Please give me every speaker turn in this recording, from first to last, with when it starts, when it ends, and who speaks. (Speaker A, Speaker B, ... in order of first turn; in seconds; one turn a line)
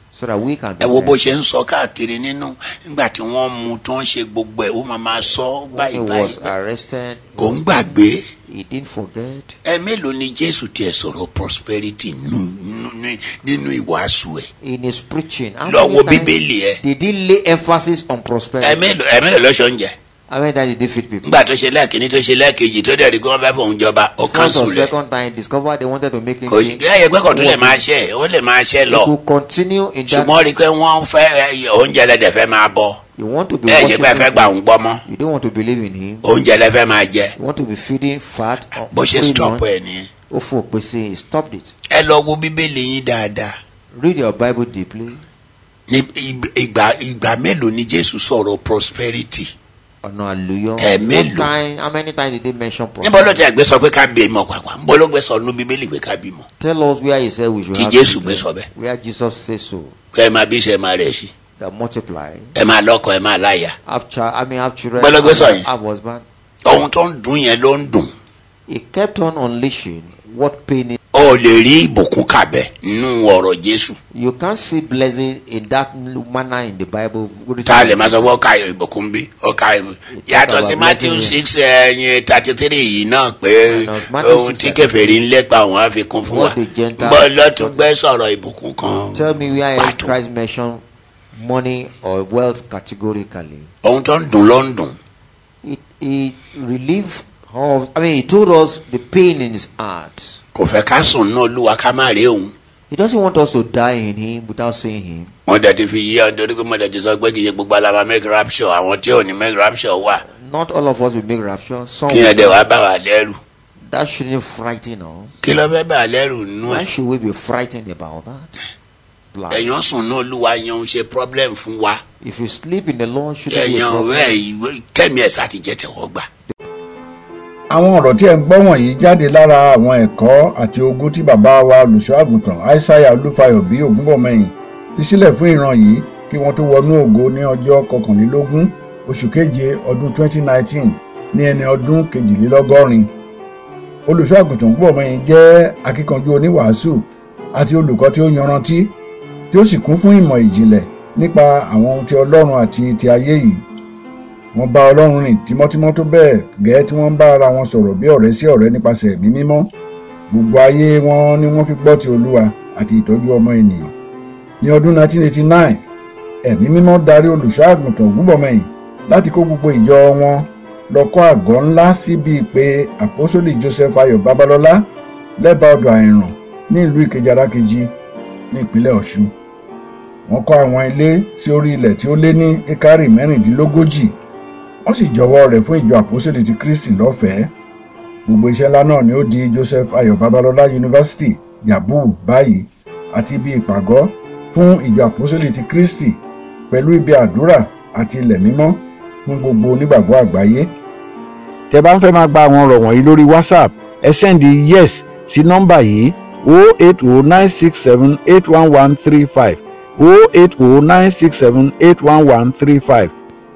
Speaker A: 0.1-1.4
Speaker B: 0.8-6.5
Speaker A: 5.7-9.6
Speaker B: 7.4-8.2
Speaker B: 9.6-14.5
Speaker A: 14.6-19.0
Speaker B: 15.7-16.8
Speaker B: 18.6-19.9
Speaker A: 20.3-21.4
Speaker B: 21.2-24.9
Speaker A: 24.3-27.9
Speaker B: 26.5-29.1
Speaker A: 28.9-30.4
Speaker B: 30.1-33.0
Speaker A: 33.2-36.3
Speaker B: 33.7-35.0
Speaker B: 36.2-37.3
Speaker A: 37.4-39.7
Speaker B: 38.9-40.1
Speaker A: 40.3-41.7
Speaker B: 41.9-43.5
Speaker A: 43.9-45.2
Speaker B: 45.9-49.5
Speaker A: 50.0-53.5
Speaker B: 50.8-51.5
Speaker B: 53.0-56.5
Speaker A: 56.6-60.0
Speaker B: 57.8-58.7
Speaker B: 60.1-61.3
Speaker A: 61.6-62.5
Speaker B: 62.5-63.8
Speaker A: 63.9-66.2
Speaker B: 65.0-65.7
Speaker B: 66.7-68.1
Speaker A: 68.7-71.0
Speaker B: 71.1-74.0
Speaker A: 74.1-78.4
Speaker B: 77.7-90.2
Speaker A: 80.1-81.4
Speaker A: 83.7-85.2
Speaker A: 86.2-87.9
Speaker A: 89.1-90.8
Speaker A: 91.3-93.7
Speaker B: 93.8-95.0
Speaker A: 95.6-100.4
Speaker B: 100.5-102.5
Speaker A: 102.9-105.3
Speaker B: 105.5-110.2
Speaker A: 110.2-112.7
Speaker B: 112.1-113.4
Speaker A: 113.8-115.4
Speaker B: 115.4-116.9
Speaker A: 116.6-118.6
Speaker A: 119.3-119.8
Speaker B: 119.5-122.0
Speaker A: 122.2-124.4
Speaker B: 123.5-126.3
Speaker C: 127.7-143.1
Speaker C: 144.1-148.9
Speaker C: 149.5-153.6
Speaker C: 154.5-159.7
Speaker C: 160.3-163.9
Speaker C: 164.6-165.8
Speaker C: 166.4-174.9
Speaker C: 175.4-177.9
Speaker C: 178.5-179.3
Speaker C: 180.3-184.2
Speaker C: 184.8-187.5
Speaker C: 188.2-200.7
Speaker C: 201.7-213.1